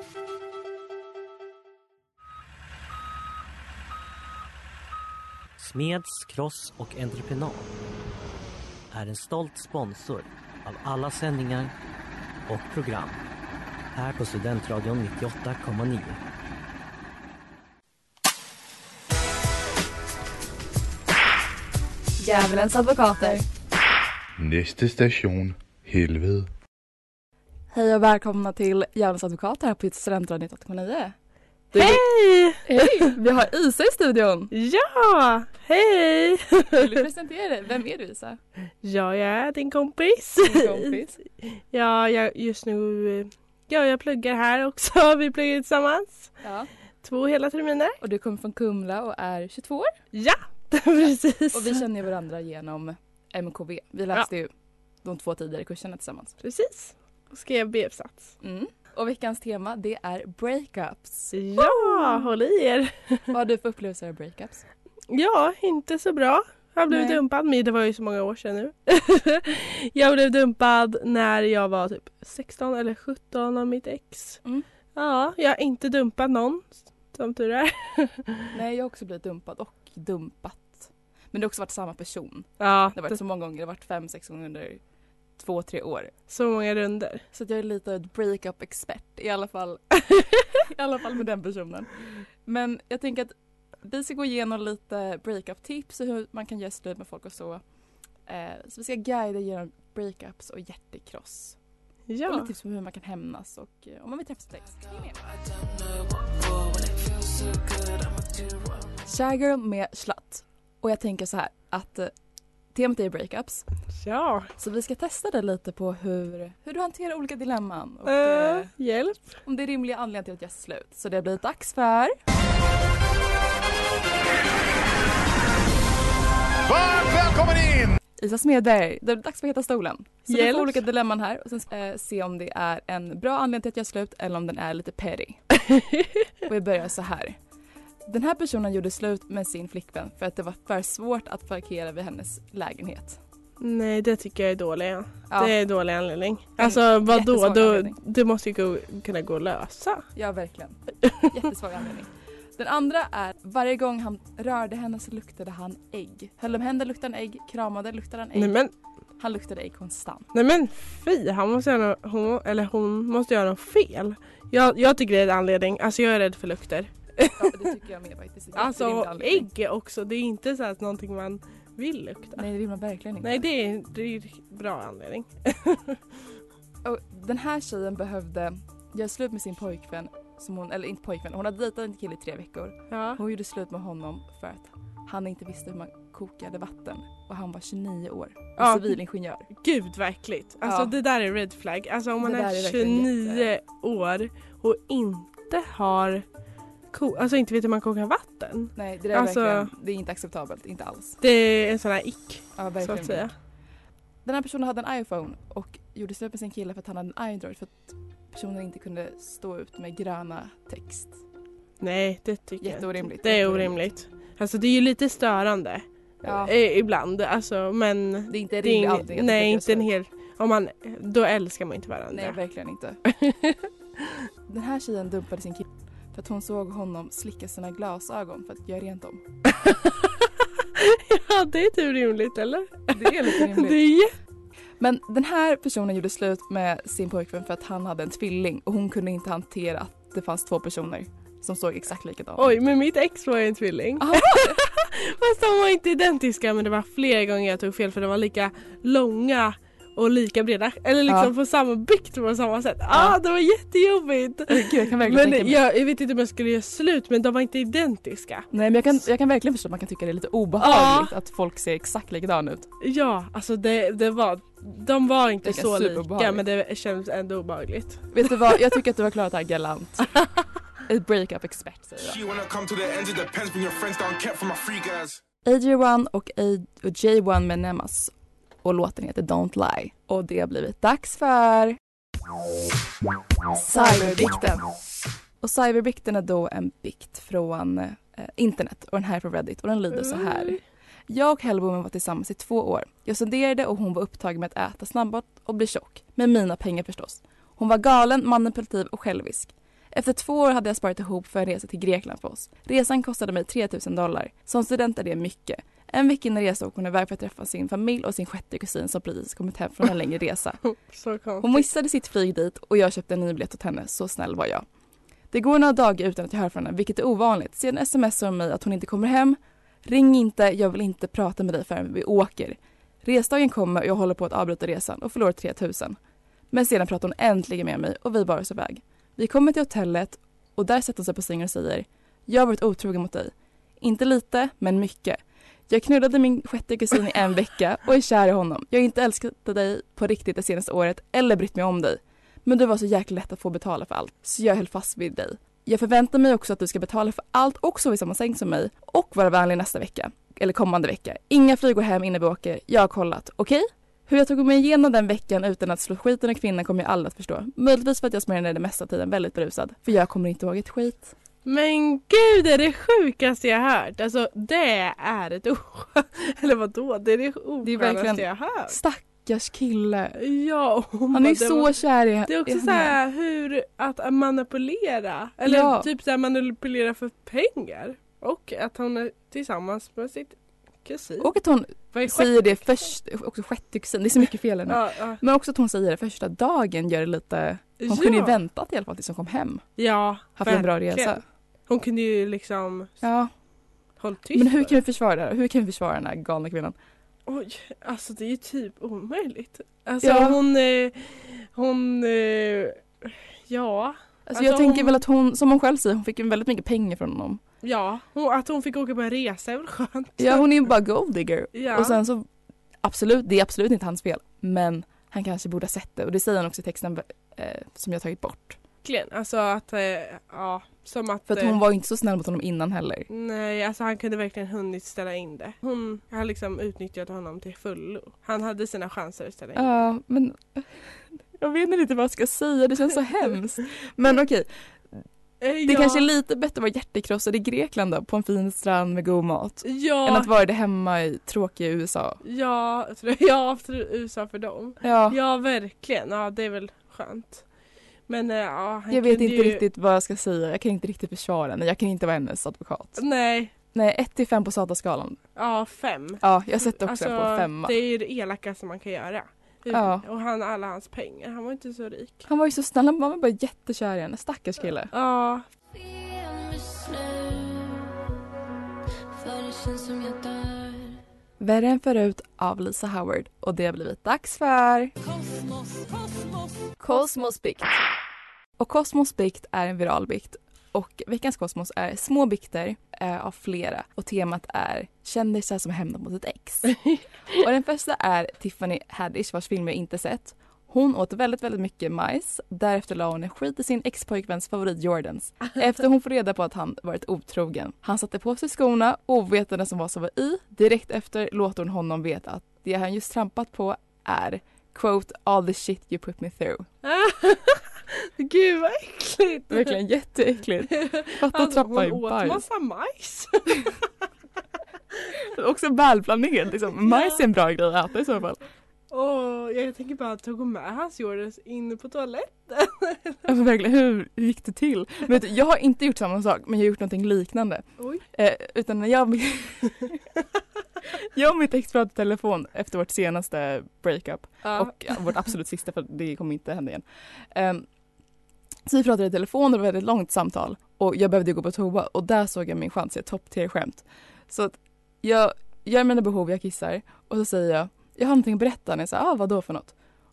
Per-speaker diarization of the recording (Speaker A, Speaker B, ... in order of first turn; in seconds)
Speaker A: 5.6-7.7, 8.9-11.7, 12.5-13.2, 13.9-16.2
Speaker B: 22.2-23.4, 27.7-31.1, 31.7-32.0, 32.6-34.5, 36.8-38.4, 40.4-41.2, 46.4-46.7, 48.0-49.9, 51.5-54.5, 55.0-56.3, 58.4-62.3, 63.3-64.7, 66.9-67.2, 78.5-84.8, 85.4-86.1, 87.3-89.8, 90.6-97.6, 98.3-101.6, 102.3-105.2, 109.0-112.1, 112.7-113.7, 114.6-118.7, 119.4-122.2, 128.2-135.4, 136.5-137.4, 138.1-143.2, 146.6-148.0, 150.2-158.6, 159.2-160.3, 167.4-169.5, 172.4-173.4, 176.8-189.5, 190.6-190.9, 192.2-193.5, 198.8-201.2, 202.6-203.3, 204.2-211.2, 212.6-213.9, 216.2-216.5, 218.3-219.9, 222.1-223.0, 224.5-229.2, 232.9-233.9, 234.8-242.6, 244.0-244.6, 252.9-253.2, 254.5-255.6, 258.5-262.7, 265.4-266.4, 268.1-270.1, 270.9-272.2, 275.4-278.1, 278.6-281.8, 283.5-284.6, 285.4-310.6, 311.4-314.6, 315.3-326.0, 326.5-361.1, 367.6-370.2, 371.1-372.9, 375.4-375.9, 381.2-389.6, 390.4-391.2, 393.0-393.3, 394.3-396.8, 400.0-400.4, 404.3-407.4, 410.2-412.3, 412.8-418.6, 421.3-423.1, 429.6-434.5, 435.6-442.2, 444.8-445.2, 448.9-453.0, 453.7-455.2, 456.2-457.8, 459.7-460.1, 462.3-464.9, 471.4-474.9, 476.8-477.8, 478.6-486.7, 487.3-506.7, 509.5-512.4, 515.1-518.4, 523.3-530.0, 530.9-537.7, 538.7-549.7
Speaker C: 24.4-26.5
Speaker D: 31.8-33.1, 34.5-37.0, 38.8-46.3, 47.0-48.0, 50.1-51.9, 56.4-58.4, 61.3-63.3, 65.1-74.4, 75.0-78.5, 82.6-83.2, 86.3-87.2, 90.1-90.4, 102.1-102.5, 114.0-114.5, 118.0-119.3, 130.3-130.8, 135.5-136.3, 143.6-150.1, 158.4-158.7, 160.3-167.4, 168.6-172.5, 173.2-176.0, 182.9-183.2, 188.6-188.9, 189.5-196.2, 196.9-199.7, 201.2-203.3, 211.8-222.4, 223.1-224.2, 229.5-234.1, 242.4-258.5, 260.6-261.1, 262.8-268.6, 283.7-284.5, 289.9-290.6, 310.9-311.7, 361.4-368.8, 370.2-371.7, 372.3-381.3, 381.9-382.6, 384.7-385.2, 387.8-388.4, 389.8-392.9, 394.0-394.8, 397.3-405.0, 407.6-410.4, 411.5-412.0, 418.8-421.6, 423.1-429.7, 435.4-436.1, 439.6-440.3, 442.2-447.5, 448.1-449.6, 453.0-453.5, 455.4-462.3, 464.9-465.4, 486.7-487.0, 506.8-509.8, 510.7-513.8, 516.8-517.2, 518.9-523.3, 527.8-528.0, 534.4-535.0
Speaker E: 126.7-127.9, 272.0-275.2
Speaker F: 465.9-467.4, 469.2-470.7, 475.4-476.3